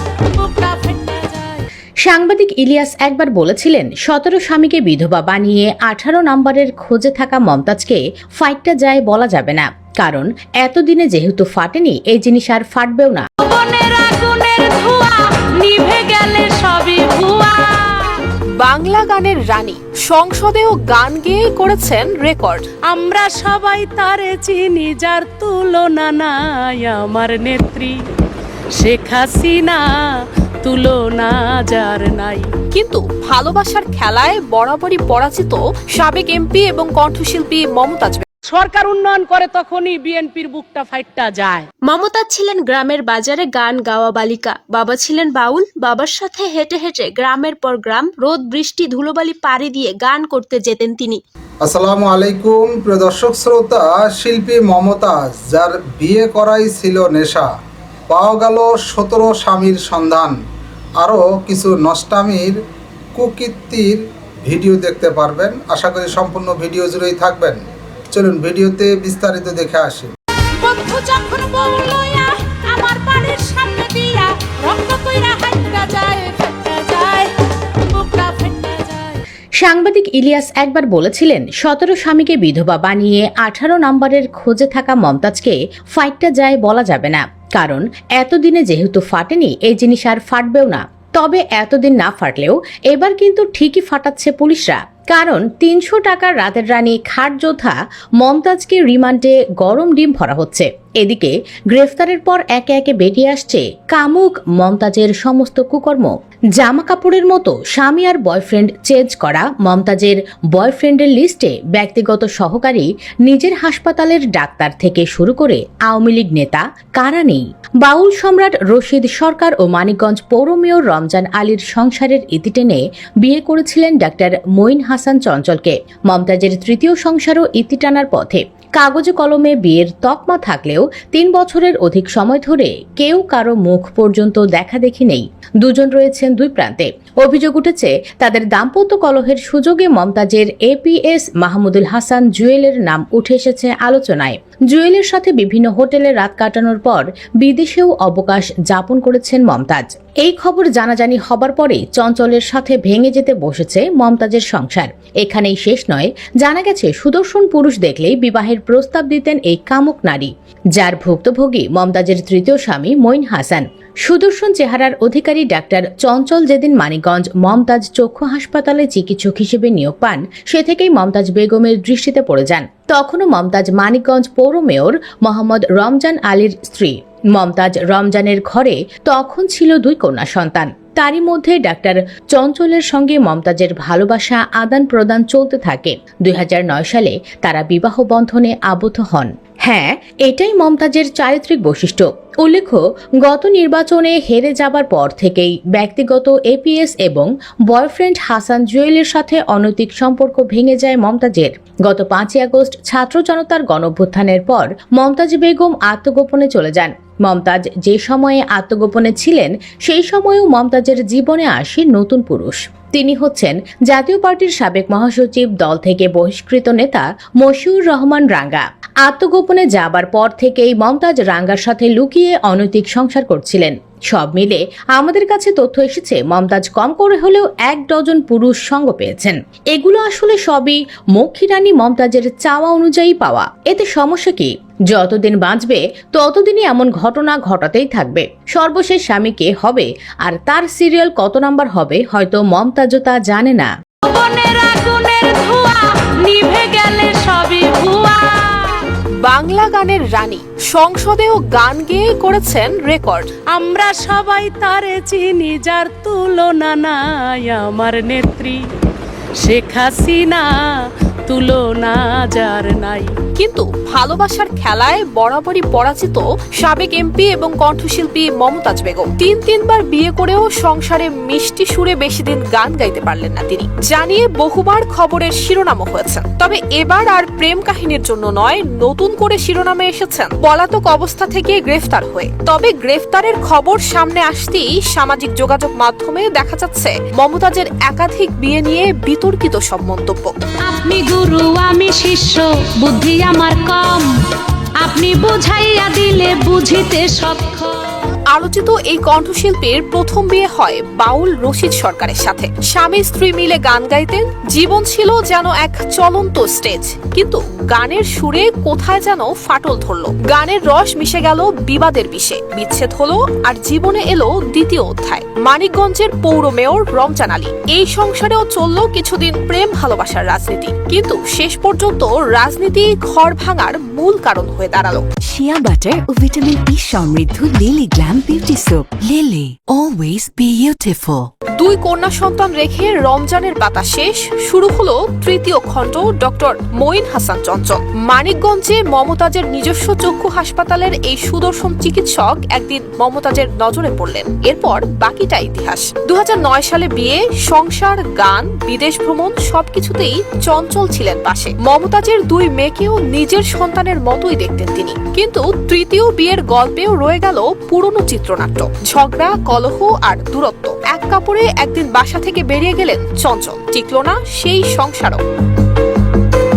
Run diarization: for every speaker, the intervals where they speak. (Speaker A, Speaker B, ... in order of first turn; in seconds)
Speaker A: 0.3-1.6, 41.9-51.2, 70.6-77.3, 77.9-79.2
Speaker B: 2.1-13.3, 79.6-243.7
Speaker C: 13.4-18.2, 22.9-27.9, 28.8-29.8, 30.6-32.5, 38.5-41.7, 244.1-248.8, 253.5-258.6, 259.4-260.5, 261.3-263.1, 290.7-294.1, 294.8-297.8
Speaker D: 18.6-22.6, 32.7-38.2, 249.2-253.3, 263.4-290.3, 298.3-325.0, 331.6-365.2
Speaker E: 51.6-57.5, 58.1-60.4, 61.0-62.6, 63.1-70.1
Speaker F: 325.3-331.3